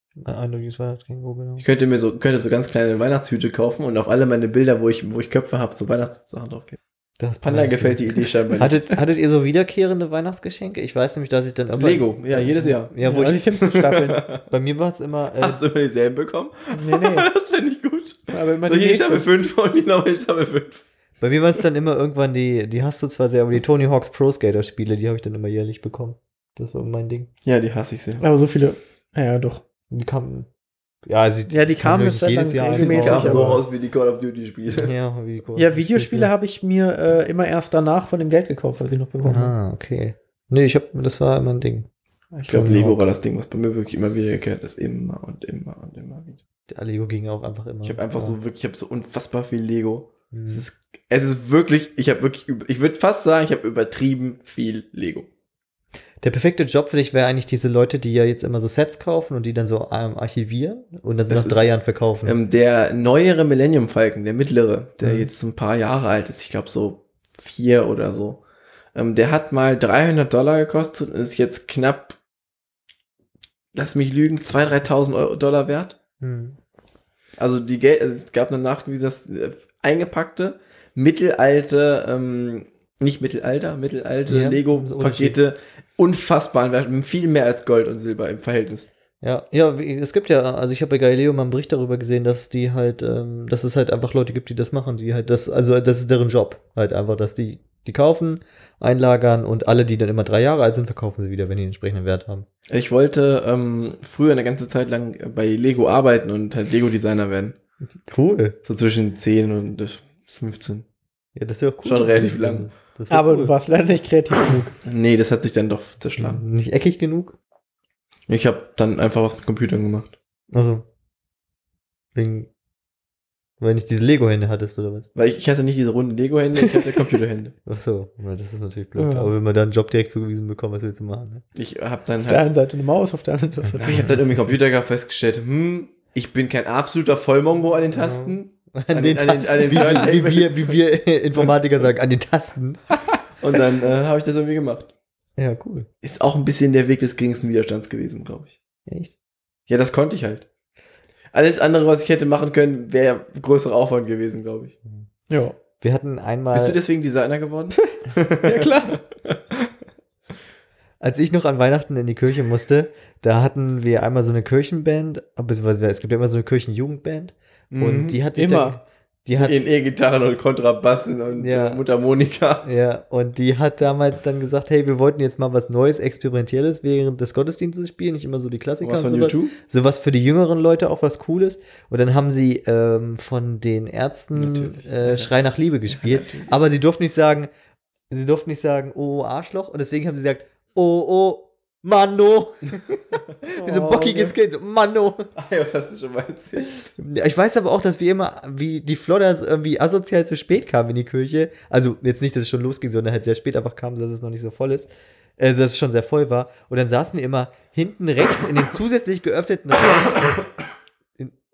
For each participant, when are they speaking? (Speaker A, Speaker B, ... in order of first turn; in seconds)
Speaker A: 0.2-1.6, 7.2-13.5, 14.5-15.6, 21.2-27.3, 29.9-30.5, 31.1-33.6, 34.7-36.3, 39.2-41.9, 42.5-43.0, 46.7-48.4, 50.3-50.6, 56.2-62.4, 65.0-65.3, 76.2-76.6, 84.3-85.4, 89.2-102.5, 108.0-108.6, 111.4-113.5, 116.2-117.4, 120.5-120.8, 122.2-122.5, 123.6-125.1, 127.7-131.4, 133.9-134.2, 137.9-142.8, 145.4-145.9, 148.9-149.1, 155.8-156.8, 161.0-169.7, 171.4-171.8, 172.6-187.5, 188.1-192.8, 193.5-195.3, 197.0-210.4
Speaker B: 1.6-6.8, 7.4-9.0, 11.8-12.9, 13.6-14.4, 15.4-20.8, 27.4-28.2, 32.7-34.9, 42.3-46.4, 47.8-55.3, 61.3-61.7, 62.2-68.4, 69.0-72.2, 73.7-76.0, 77.4-88.9, 102.7-107.6, 108.7-110.9, 111.8-112.7, 114.8-116.4, 118.3-120.2, 125.2-127.5, 131.6-132.5, 133.8-140.8, 143.4-144.9, 146.0-148.6, 149.7-150.5, 151.3-154.7, 156.5-159.7, 167.7-168.2, 169.4-172.8, 178.8-179.6, 184.3-186.6, 195.4-196.9
Speaker C: 13.0-14.2, 16.7-17.3, 18.3-19.3, 28.2-29.6, 31.5-33.6, 35.6-39.5, 113.1-114.7, 129.0-129.3, 132.2-134.1, 155.3-155.6, 158.4-159.0, 168.3-168.8, 193.6-194.3